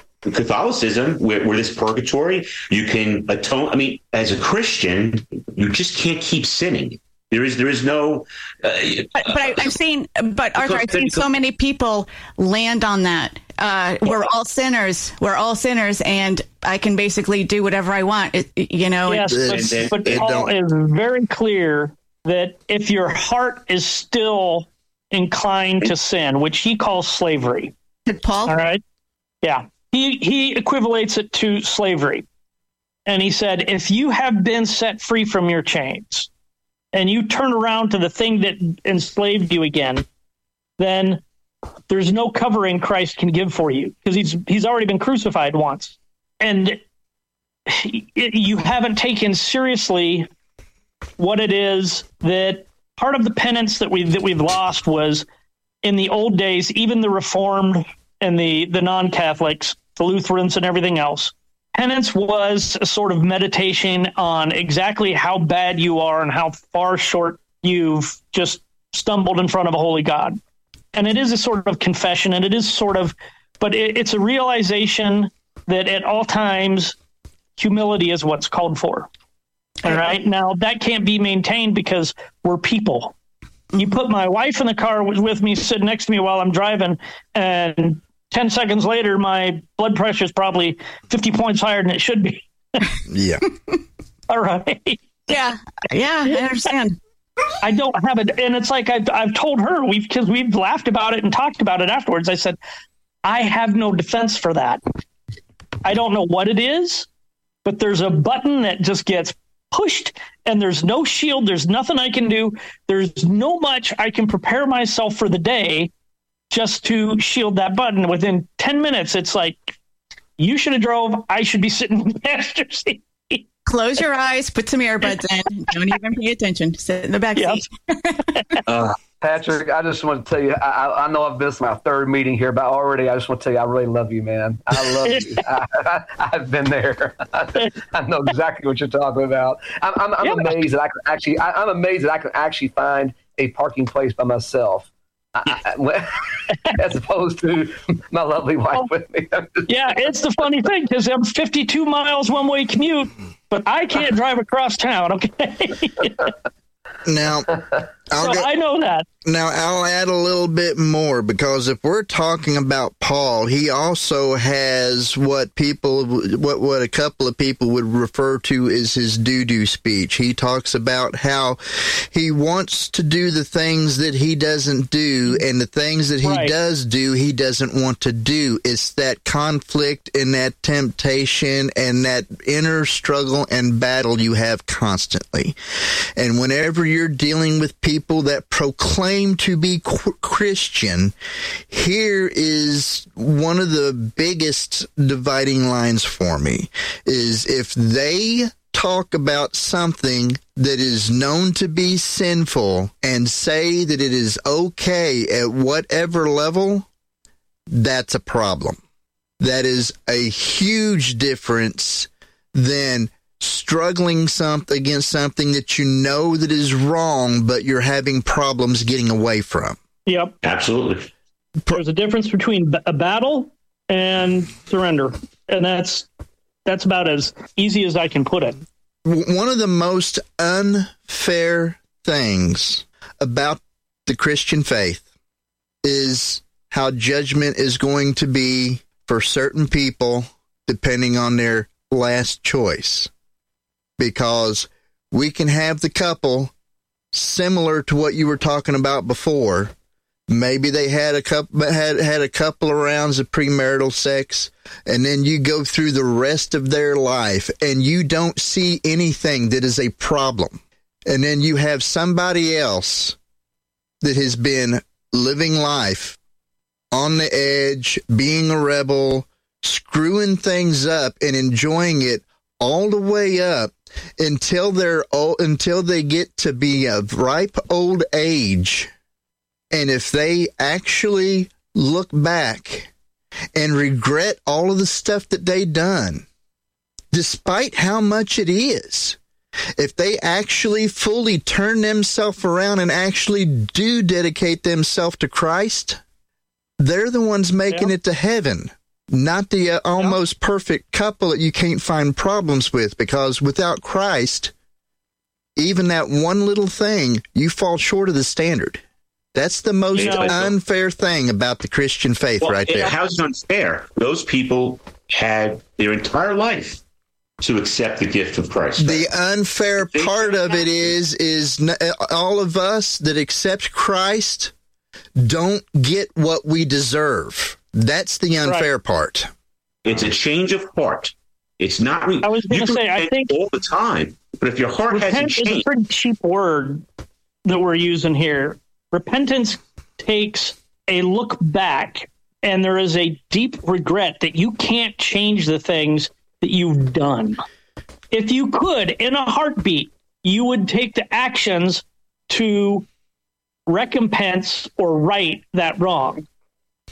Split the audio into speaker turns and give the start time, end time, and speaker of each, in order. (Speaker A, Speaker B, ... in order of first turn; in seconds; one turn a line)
Speaker A: 0.2-9.7
Speaker B: 9.2-19.4
Speaker A: 10.6-11.3
Speaker C: 19.1-27.7
Speaker D: 19.2-20.5
Speaker A: 19.5-20.3
Speaker B: 28.1-28.5
Speaker C: 28.5-28.8
Speaker C: 29.4-32.2
Speaker C: 33.1-36.3
Speaker C: 36.9-40.0
Speaker C: 40.8-41.2
Speaker C: 41.9-46.8
Speaker C: 47.7-50.3
Speaker C: 51.2-55.2
Speaker C: 55.8-70.4
Speaker C: 70.9-77.0
Speaker C: 77.6-79.1
Speaker C: 79.8-83.1
Speaker C: 83.8-92.9
Speaker D: 93.1-93.4
Speaker C: 94.3-95.0
Speaker B: 95.3-97.0
Speaker C: 96.3-96.7
Speaker C: 97.6-102.6
Speaker C: 103.2-104.8
Speaker C: 105.8-107.1
Speaker C: 107.6-115.9
Speaker C: 116.5-119.7
Speaker C: 120.4-123.4
Speaker B: 123.7-128.6
Speaker C: 127.3-127.6
Speaker A: 128.7-128.9
Speaker E: 129.2-149.8
Speaker C: 135.0-135.4
Speaker C: 140.2-140.5
Speaker C: 149.7-156.3
Speaker D: 157.0-157.6
Speaker D: 158.1-158.5
Speaker C: 158.2-159.1
Speaker D: 159.2-171.6
Speaker D: 172.1-185.6
Speaker C: 176.2-176.5
Speaker D: 186.2-191.1
Speaker D: 191.7-206.8
Speaker D: 207.7-208.8
Speaker D: 209.4-219.8
Speaker C: 220.1-220.3
Speaker A: 220.4-221.1
Speaker C: 221.7-226.1
Speaker C: 226.7-228.6
Speaker D: 229.0-235.1
Speaker D: 235.8-243.1
Speaker D: 244.0-246.5
Speaker D: 247.1-249.7
Speaker D: 250.3-263.1
Speaker D: 264.0-266.2
Speaker D: 266.9-278.9
Speaker D: 279.7-282.9
Speaker D: 283.5-286.2
Speaker D: 287.1-289.2
Speaker D: 289.8-296.0
Speaker D: 296.8-304.5
Speaker C: 297.7-297.9
Speaker D: 305.6-308.8
Speaker D: 309.3-312.9
Speaker C: 309.9-310.4
Speaker A: 309.9-310.5
Speaker A: 312.4-316.8
Speaker A: 317.4-319.1
Speaker D: 318.8-324.5
Speaker A: 319.8-320.9
Speaker D: 325.2-329.3
Speaker A: 329.8-335.6
Speaker C: 332.2-333.3
Speaker C: 334.9-336.8
Speaker C: 337.4-347.4
Speaker C: 348.1-352.9
Speaker C: 353.7-356.2